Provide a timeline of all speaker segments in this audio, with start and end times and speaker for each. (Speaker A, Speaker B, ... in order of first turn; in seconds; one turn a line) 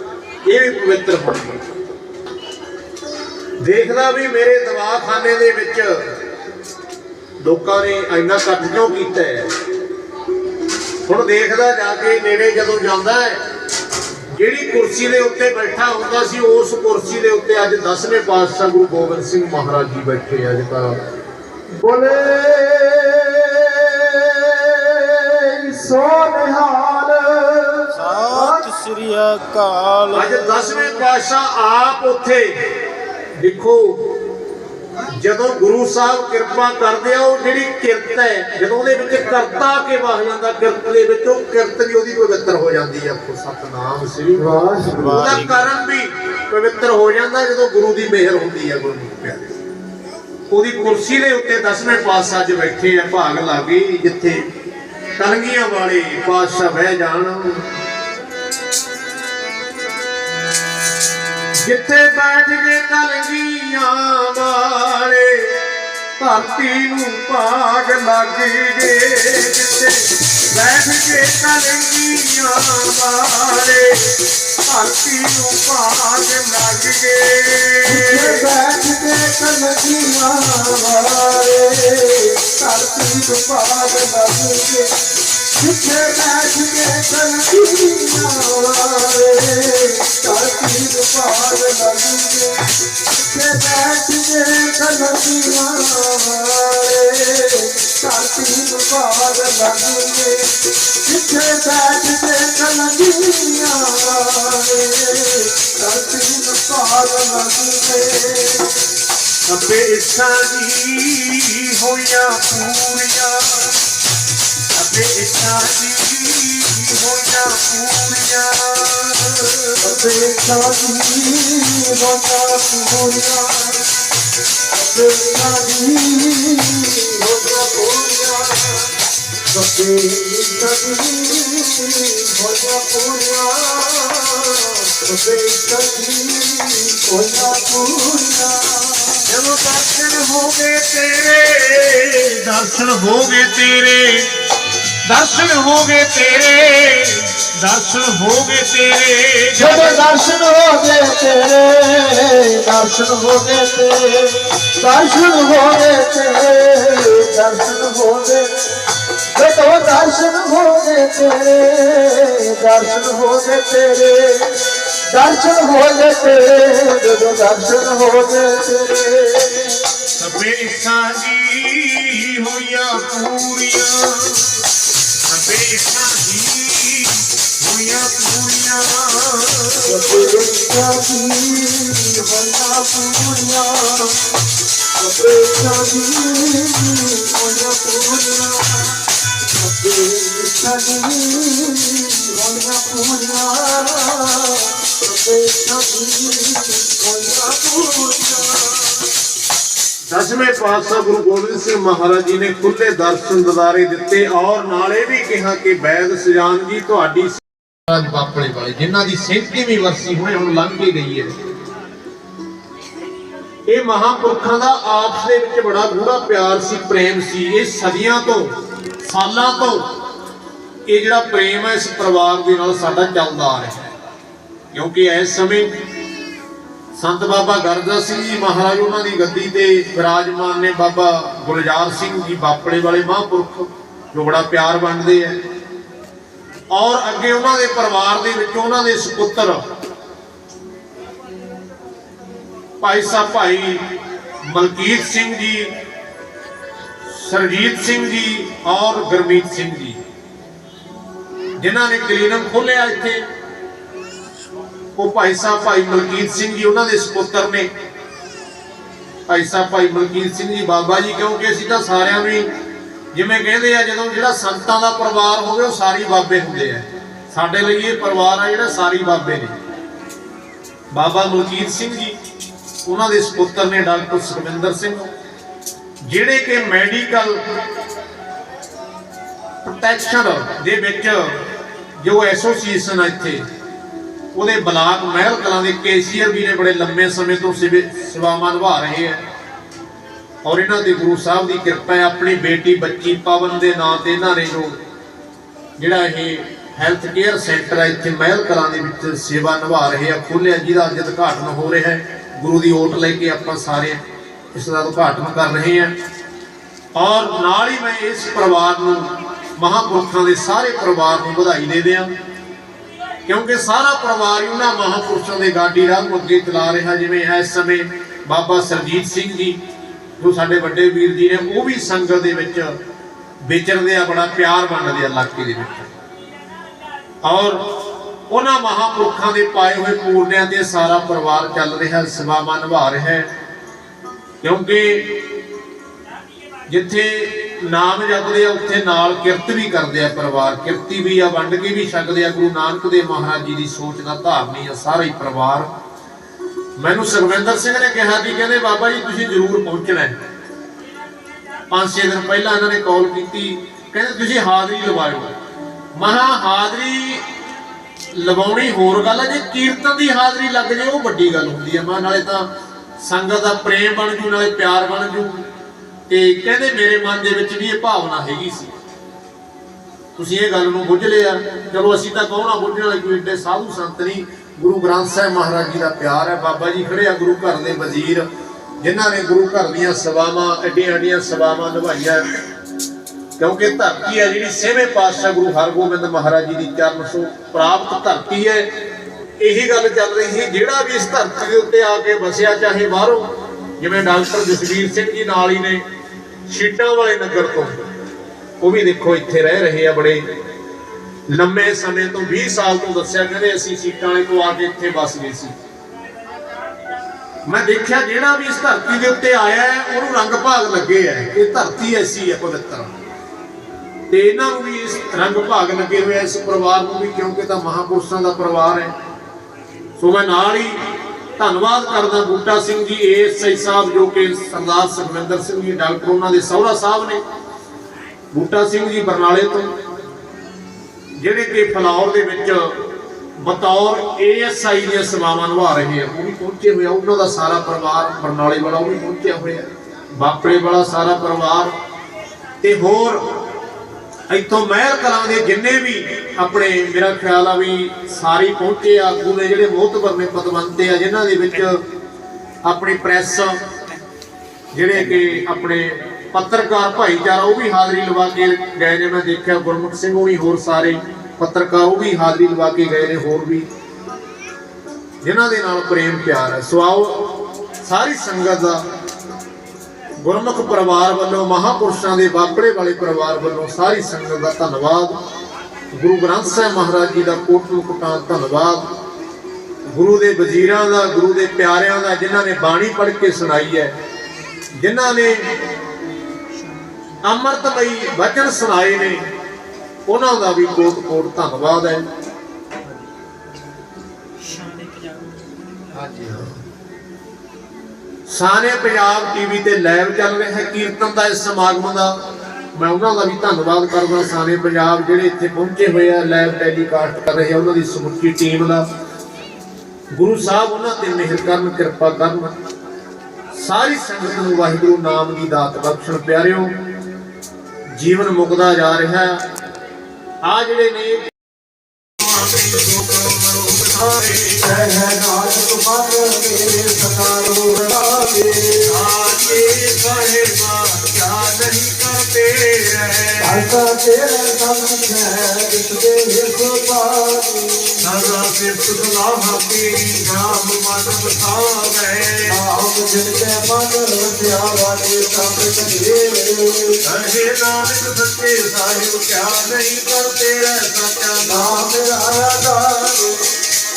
Speaker A: 0.4-1.6
Speaker A: 3.6-6.1
Speaker A: 7.4-9.5
Speaker A: 11.1-13.4
Speaker A: 14.3-21.0
Speaker B: 21.7-28.6
Speaker C: 27.9-30.6
Speaker A: 30.1-32.6
Speaker A: 33.4-34.1
Speaker A: 35.1-49.5
Speaker B: 44.4-44.8
Speaker C: 44.5-45.6
Speaker A: 50.5-54.4
Speaker A: 55.2-57.6
Speaker A: 61.6-65.6
Speaker A: 66.2-78.5
Speaker B: 77.8-84.9
Speaker B: 85.6-92.6
Speaker B: 93.3-100.5
Speaker B: 101.0-108.8
Speaker A: 109.5-113.8
Speaker A: 114.7-120.0
Speaker B: 119.8-123.8
Speaker B: 124.7-128.9
Speaker B: 129.5-139.2
Speaker A: 139.3-144.3
Speaker A: 145.1-150.0
Speaker B: 149.6-158.5
Speaker B: 159.3-164.6
Speaker B: 165.1-169.8
Speaker A: 170.2-174.6
Speaker A: 175.3-180.3
Speaker B: 179.8-184.3
Speaker B: 185.0-199.0
Speaker A: 200.1-211.3
Speaker A: 213.7-219.9
Speaker A: 220.9-223.9
Speaker A: 224.7-225.8
Speaker A: 226.9-235.4
Speaker A: 236.7-239.6
Speaker A: 242.8-243.9
Speaker A: 244.5-245.7
Speaker A: 247.1-250.0
Speaker A: 251.6-253.2
Speaker A: 254.9-257.7
Speaker A: 259.3-262.4
Speaker A: 263.1-269.5
Speaker A: 270.9-272.2
Speaker A: 272.9-275.1
Speaker A: 276.0-277.4
Speaker A: 279.6-281.5
Speaker A: 282.0-283.4
Speaker A: 284.3-289.2
Speaker A: 290.4-294.8
Speaker A: 295.8-304.0
Speaker A: 304.5-305.9
Speaker A: 306.9-312.1
Speaker A: 313.2-319.6
Speaker A: 320.2-322.7
Speaker A: 323.4-325.9
Speaker A: 327.2-327.8
Speaker A: 328.3-333.3
Speaker A: 334.4-335.2
Speaker A: 336.7-345.7
Speaker A: 346.8-350.1
Speaker A: 351.7-355.3
Speaker A: 355.9-357.2
Speaker A: 358.1-362.5
Speaker A: 363.0-365.4
Speaker A: 366.1-368.7
Speaker A: 370.2-378.3
Speaker A: 378.8-382.3
Speaker A: 383.4-388.7
Speaker A: 389.4-393.3
Speaker A: 393.8-395.8
Speaker A: 396.5-397.8
Speaker A: 398.6-400.2
Speaker A: 401.3-405.5
Speaker A: 407.4-412.9
Speaker A: 414.1-418.9
Speaker A: 420.0-420.8
Speaker A: 421.4-427.2
Speaker A: 428.3-429.7
Speaker A: 431.2-432.8
Speaker A: 433.4-441.7
Speaker A: 442.6-443.2
Speaker A: 444.3-451.8
Speaker A: 452.6-453.6
Speaker A: 454.7-463.7
Speaker A: 465.2-468.8
Speaker A: 470.2-475.1
Speaker A: 475.9-478.9
Speaker A: 479.9-483.9
Speaker A: 484.8-485.4
Speaker A: 487.2-489.2
Speaker A: 490.1-492.0
Speaker B: 494.4-495.3
Speaker A: 495.9-496.6
Speaker A: 498.3-502.1
Speaker A: 502.7-508.9
Speaker A: 510.1-512.5
Speaker A: 513.6-516.7
Speaker A: 518.0-519.4
Speaker A: 520.4-521.3
Speaker A: 522.2-524.6
Speaker B: 524.6-528.9
Speaker A: 528.8-533.7
Speaker B: 533.4-538.1
Speaker A: 538.0-542.6
Speaker B: 542.5-547.0
Speaker A: 547.0-551.8
Speaker B: 551.4-553.4